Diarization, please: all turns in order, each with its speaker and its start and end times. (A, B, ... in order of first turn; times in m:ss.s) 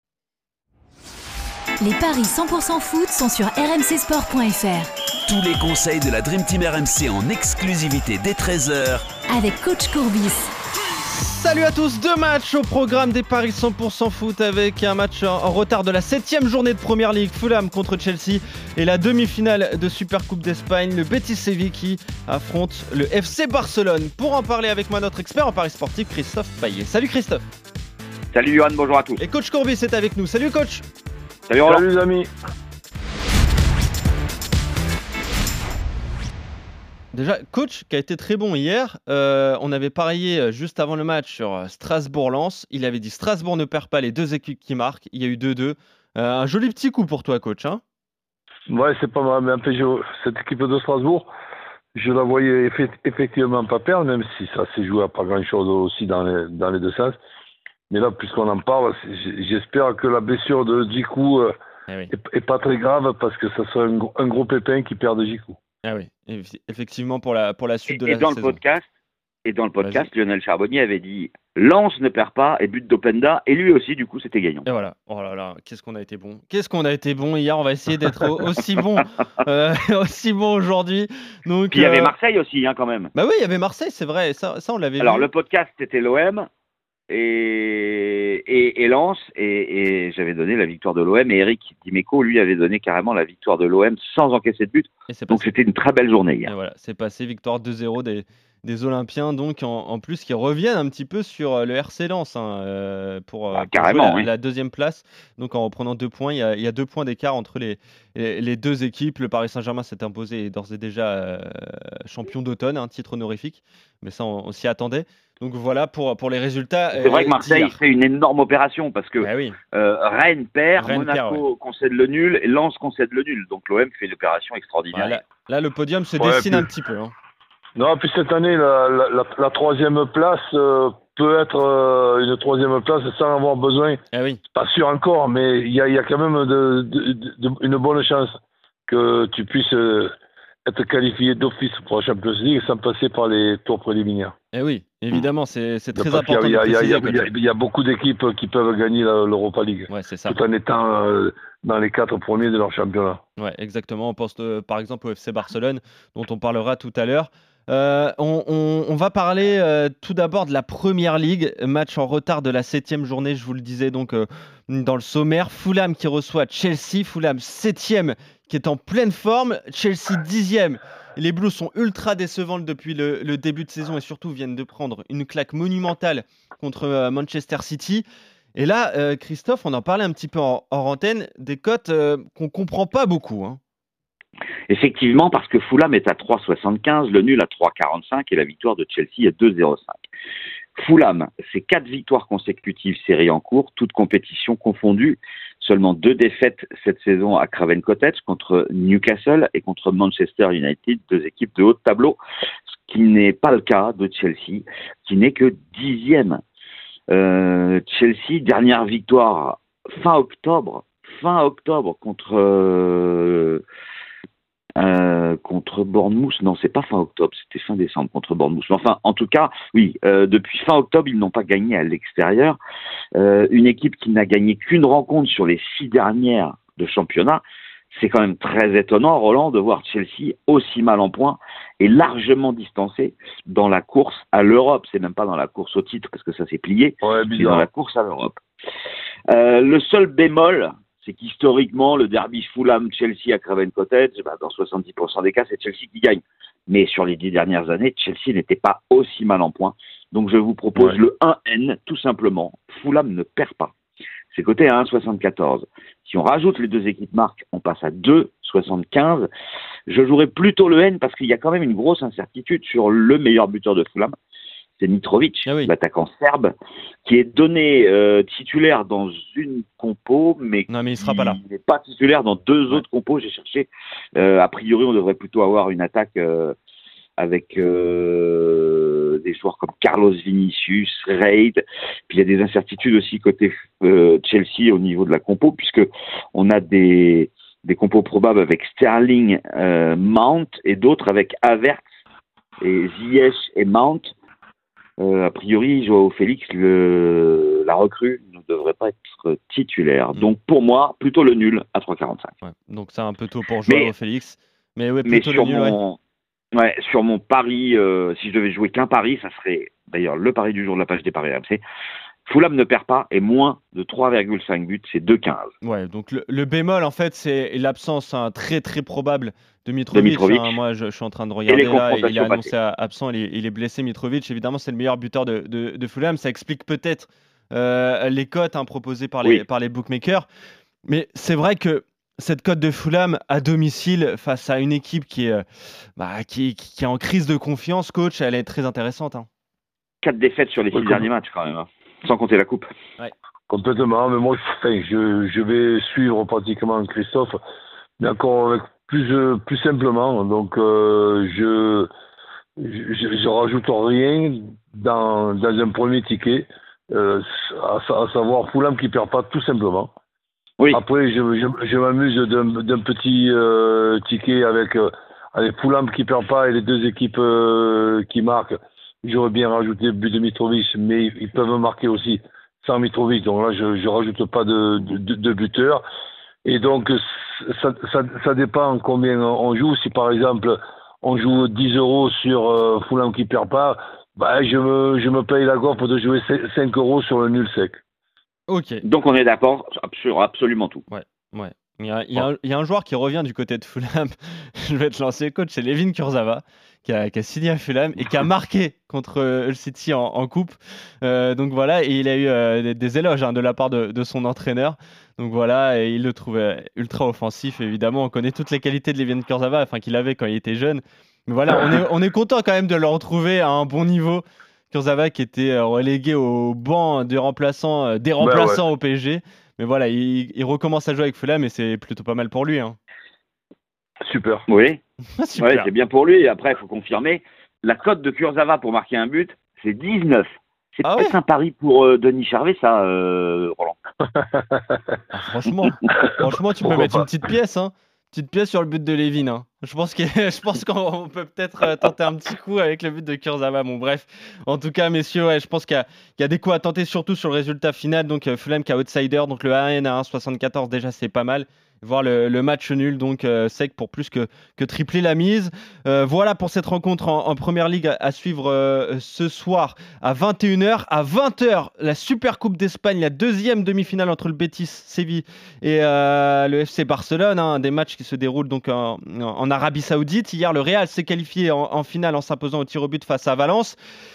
0:01.8-0:04.9 A
0:05.3-0:09.1 B
0:09.3-0:10.5 A
0:11.0-0:27.4 C
0:28.3-0:29.2 D
0:29.2-0:30.8 C
0:31.5-0:31.8 D
0:31.6-0:32.3 E
0:37.1-0:47.8 C
0:48.7-0:51.3 E
0:51.9-0:57.2 E
0:57.9-1:01.5 E
1:02.1-1:05.6 E
1:05.8-1:08.6 C
1:07.9-1:08.8 D
1:09.4-1:14.6 D
1:09.8-1:10.1 C
1:14.6-1:22.2 C
1:21.7-1:23.1 D
1:23.1-1:25.3 C
1:25.0-1:26.5 D
1:27.1-1:36.5 D
1:35.1-1:35.5 C
1:36.4-1:57.8 C
1:43.5-1:44.3 D
1:56.9-2:05.2 D
1:59.2-1:59.6 C
2:00.8-2:01.4 C
2:04.9-2:07.1 C
2:06.2-2:06.7 E
2:07.8-2:14.0 E
2:14.1-2:14.4 C
2:14.5-2:18.3 E
2:18.9-2:20.1 E
2:20.6-2:24.3 E
2:24.5-2:27.3 C
2:25.9-2:33.2 E
2:29.9-2:30.4 C
2:33.4-3:03.6 C
3:04.7-3:10.0 D
3:10.8-3:22.2 D
3:22.9-3:26.4 D
3:27.1-3:33.6 D
3:34.8-3:42.6 D
3:43.1-3:58.4 D
3:57.0-3:57.7 E
3:59.3-4:13.7 D
4:14.3-4:19.3 D
4:19.9-4:24.1 D
4:24.8-4:26.5 D
4:25.4-4:25.7 C
4:27.0-4:36.5 D
4:30.7-4:31.4 C
4:37.2-4:51.8 D
4:52.6-4:54.1 D
4:55.0-5:02.3 D
5:02.4-5:05.8 C
5:05.0-5:06.0 D
5:06.5-5:11.6 D
5:12.2-5:15.5 D
5:15.6-5:30.2 C
5:19.9-5:20.6 D
5:21.5-5:22.5 D
5:30.8-5:35.4 C
5:36.0-5:39.3 C
5:40.0-5:42.6 D
5:40.7-5:41.1 E
5:43.5-5:47.4 E
5:48.0-5:51.9 E
5:52.6-5:59.9 E
6:00.7-6:15.8 E
6:16.4-6:27.8 E
6:28.5-6:28.8 C
6:28.8-6:30.8 D
6:30.9-7:02.8 C
6:58.2-6:58.6 E
7:04.0-7:04.4 E
7:04.5-7:04.8 D
7:05.2-7:05.7 C
7:05.4-7:13.8 D
7:10.8-7:11.2 C
7:14.1-7:14.8 E
7:15.1-7:53.8 C
7:16.6-7:17.1 E